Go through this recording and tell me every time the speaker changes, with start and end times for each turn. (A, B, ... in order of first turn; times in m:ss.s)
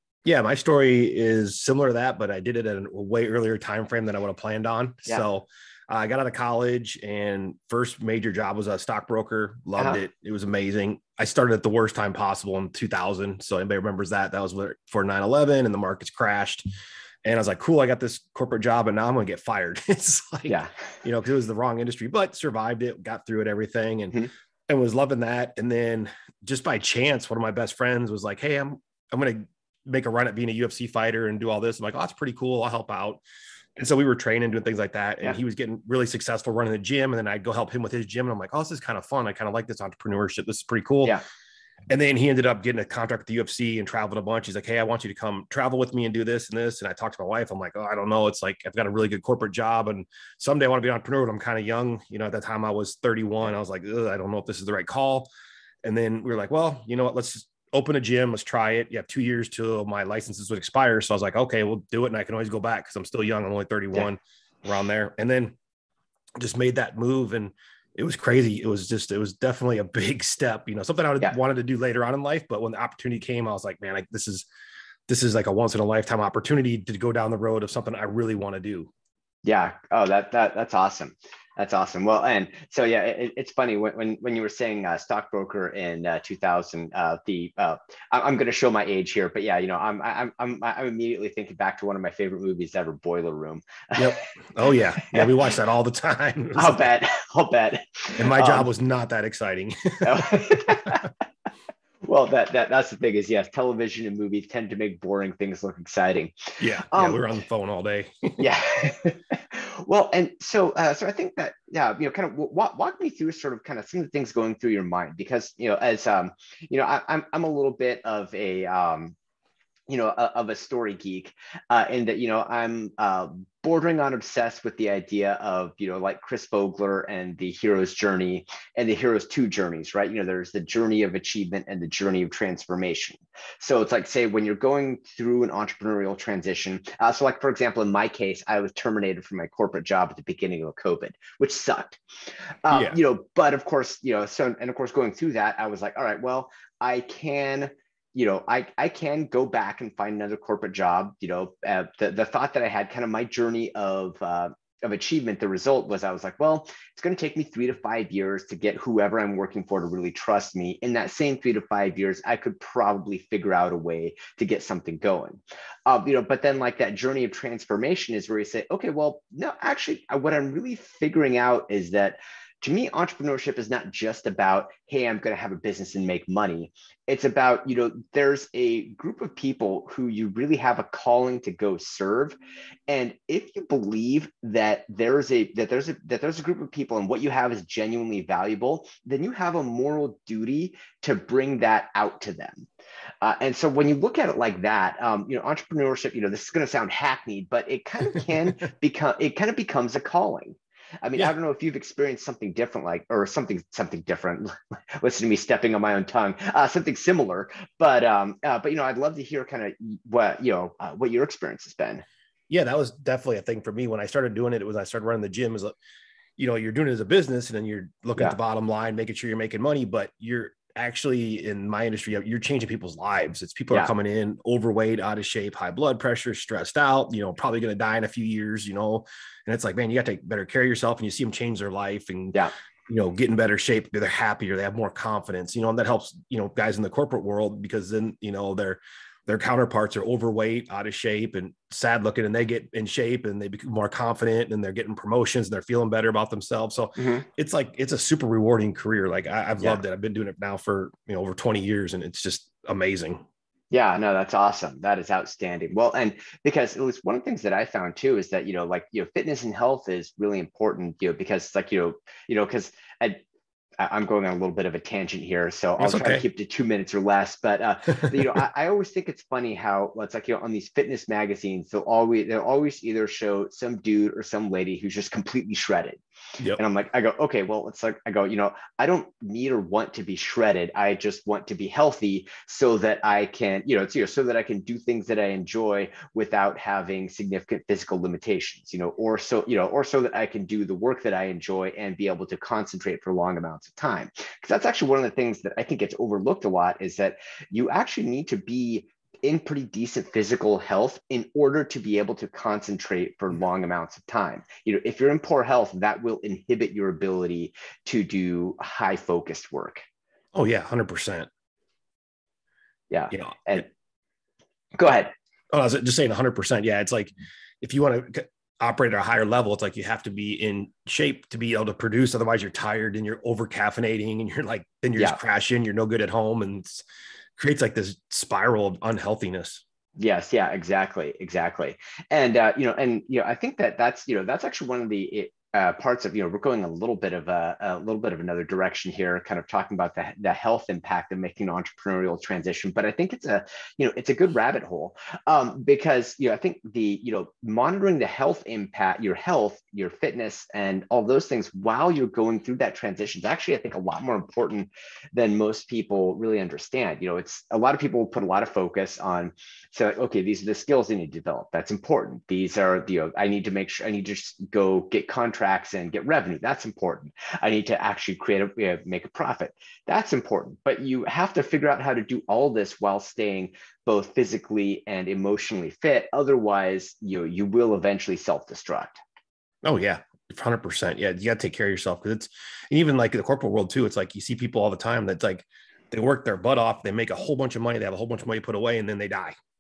0:00.2-0:16.6 A
0:09.8-0:10.0 B
0:17.2-0:24.2 A
0:24.7-0:33.2 A
0:33.8-0:41.2 A
0:41.9-0:55.3 A
0:55.8-1:05.6 A
1:06.4-1:14.5 A
1:15.1-1:18.9 A
1:19.4-1:34.1 B
1:34.0-1:36.9 A
1:36.6-1:38.7 B
1:38.2-1:40.3 A
1:40.0-1:41.1 B
1:42.0-1:47.2 B
1:46.6-1:48.5 A
1:48.4-1:59.2 B
1:59.9-2:22.0 B
2:22.6-3:02.4 B
2:22.7-2:23.0 A
3:02.9-3:12.7 B
3:13.2-3:32.0 B
3:32.5-3:35.8 A
3:36.4-4:13.2 A
4:07.0-4:07.3 B
4:13.7-4:23.2 B
4:23.8-4:36.0 B
4:25.8-4:26.2 A
4:36.6-5:09.8 B
5:10.3-5:11.3 A
5:12.9-5:13.7 B
5:13.1-5:13.6 A
5:14.8-5:15.1 B
5:15.5-5:26.8 A
5:27.4-5:29.6 A
5:30.0-6:19.0 B
6:19.6-6:29.4 A